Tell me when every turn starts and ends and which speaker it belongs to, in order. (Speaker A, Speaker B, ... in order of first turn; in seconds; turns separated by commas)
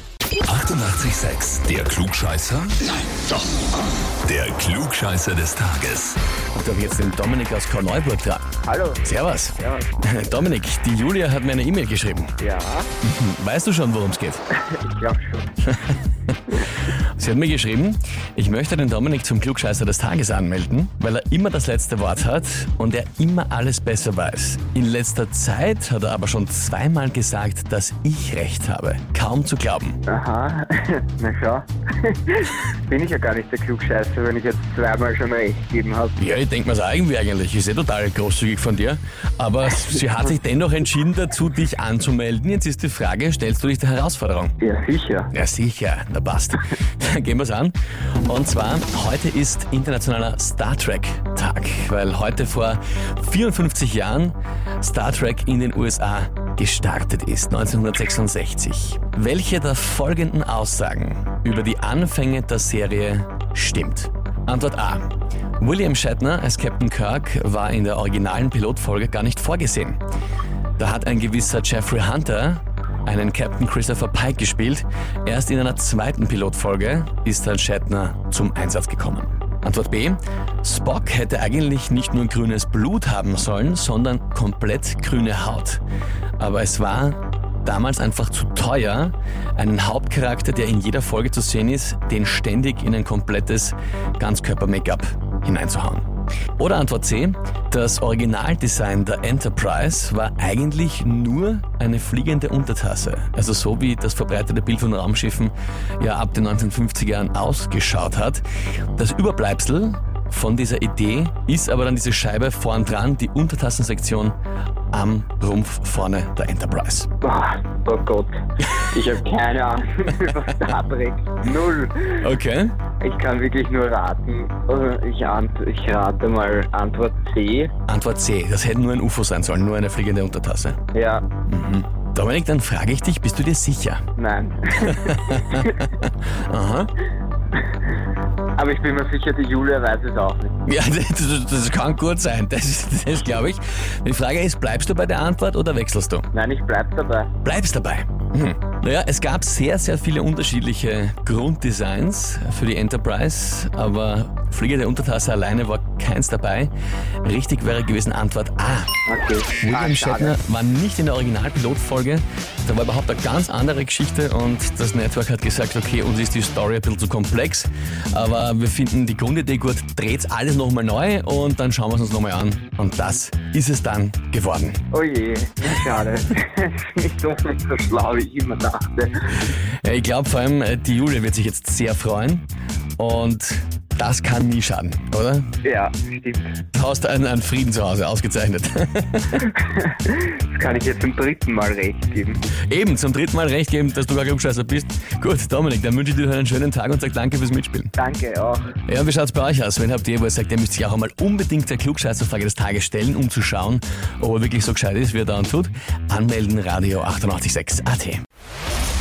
Speaker A: 0.4-2.8, Speaker A: 4.2-6.2, Speaker B: 6.5-8.5, Speaker C: 8.6-9.1, Speaker B: 9.0-12.3, Speaker C: 9.6-9.9, Speaker C: 12.4-12.9, Speaker B: 13.0-14.4, Speaker C: 14.6-15.5, Speaker B: 15.7-30.0, Speaker C: 30.1-36.2, Speaker B: 36.2-44.5, Speaker C: 44.6-45.3, Speaker B: 45.3-70.0, Speaker B: 70.8-85.8, Speaker B: 86.4-96.0, Speaker B: 96.6-108.4, Speaker B: 109.0-114.3, Speaker B: 114.9-117.1, Speaker C: 117.2-122.2, Speaker B: 122.2-122.7, Speaker C: 123.0-127.7, Speaker B: 127.9-130.8, Speaker C: 130.9-131.3, Speaker B: 131.5-134.0, Speaker C: 134.2-135.8, Speaker B: 134.8-136.9, Speaker C: 138.5-140.6, Speaker B: 140.7-146.3, Speaker C: 146.3-147.3, Speaker B: 147.4-156.7, Speaker B: 157.2-158.9, Speaker C: 159.1-160.3, Speaker B: 159.6-174.8, Speaker C: 174.9-179.5, Speaker B: 179.8-182.5, Speaker B: 183.0-185.5, Speaker C: 185.6-186.6, Speaker B: 186.7-189.5, Speaker C: 189.6-192.4, Speaker B: 192.7-197.9, Speaker C: 198.0-198.8, Speaker B: 198.9-208.2